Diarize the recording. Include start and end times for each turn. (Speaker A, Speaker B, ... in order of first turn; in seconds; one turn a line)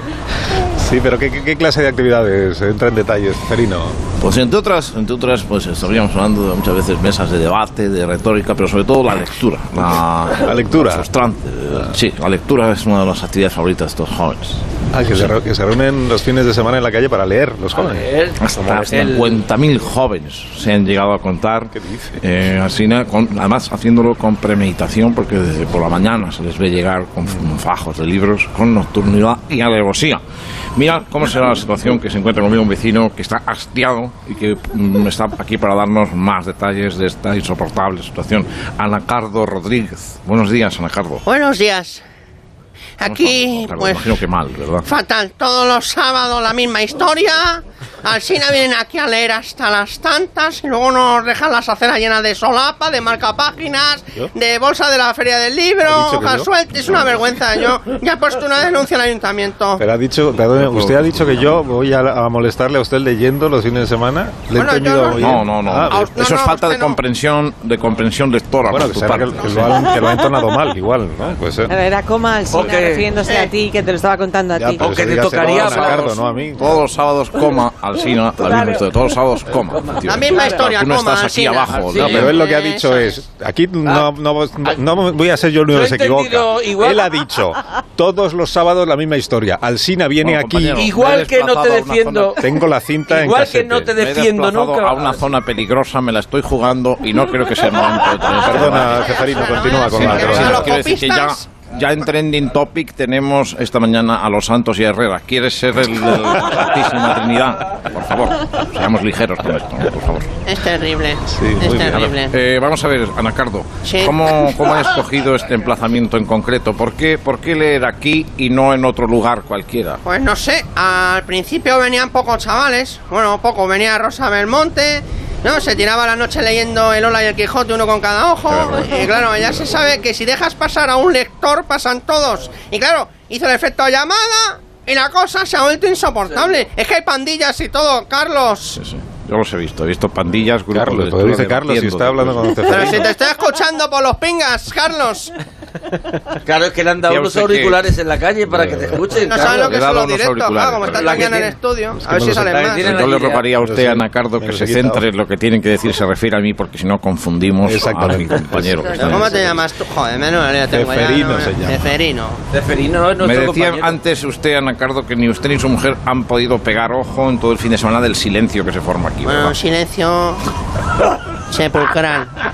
Speaker A: 0.6-4.0
Speaker B: 4.2-14.6
Speaker A: 10.4-11.1
Speaker A: 14.9-18.1
Speaker C: 17.7-19.4
Speaker B: 18.4-30.2
Speaker A: 21.7-22.1
Speaker B: 30.7-41.2
Speaker D: 41.2-42.0
Speaker D: 43.0-44.2
Speaker B: 43.0-44.9
Speaker D: 44.8-59.8
Speaker A: 55.8-56.5
Speaker A: 59.8-66.1
Speaker B: 60.6-61.3
Speaker D: 64.5-67.0
Speaker B: 65.1-69.7
Speaker A: 68.6-71.7
Speaker E: 69.9-70.3
Speaker E: 71.7-75.8
Speaker C: 72.5-73.1
Speaker D: 73.2-73.5
Speaker A: 74.5-76.8
Speaker C: 74.8-76.2
Speaker B: 76.6-82.4
Speaker E: 78.4-78.9
Speaker C: 79.6-80.6
Speaker D: 80.0-83.1
Speaker C: 81.7-82.4
Speaker A: 82.0-90.9
Speaker C: 85.7-87.1
Speaker B: 90.2-92.4
Speaker C: 90.8-92.4
Speaker A: 92.4-93.9
Speaker C: 93.1-95.2
Speaker B: 93.9-110.3
Speaker A: 98.3-100.7
Speaker D: 98.8-101.4
Speaker D: 110.5-112.3
Speaker A: 111.3-111.9
Speaker B: 111.7-120.0
Speaker D: 113.8-114.5
Speaker D: 120.0-138.8
Speaker B: 128.5-129.0
Speaker B: 138.8-142.6
Speaker A: 140.7-143.1
Speaker D: 142.7-145.3
Speaker C: 146.4-149.7
Speaker B: 147.0-147.8
Speaker A: 148.5-149.1
Speaker D: 149.2-153.0
Speaker B: 149.4-151.4
Speaker C: 150.8-151.6
Speaker A: 152.0-152.5
Speaker C: 152.2-153.5
Speaker B: 152.8-159.6
Speaker A: 153.6-155.0
Speaker A: 157.6-159.1
Speaker D: 159.0-162.4
Speaker C: 159.0-159.2
Speaker A: 160.7-161.8
Speaker C: 162.5-164.0
Speaker B: 163.2-169.6
Speaker D: 169.2-170.4
Speaker D: 171.5-172.3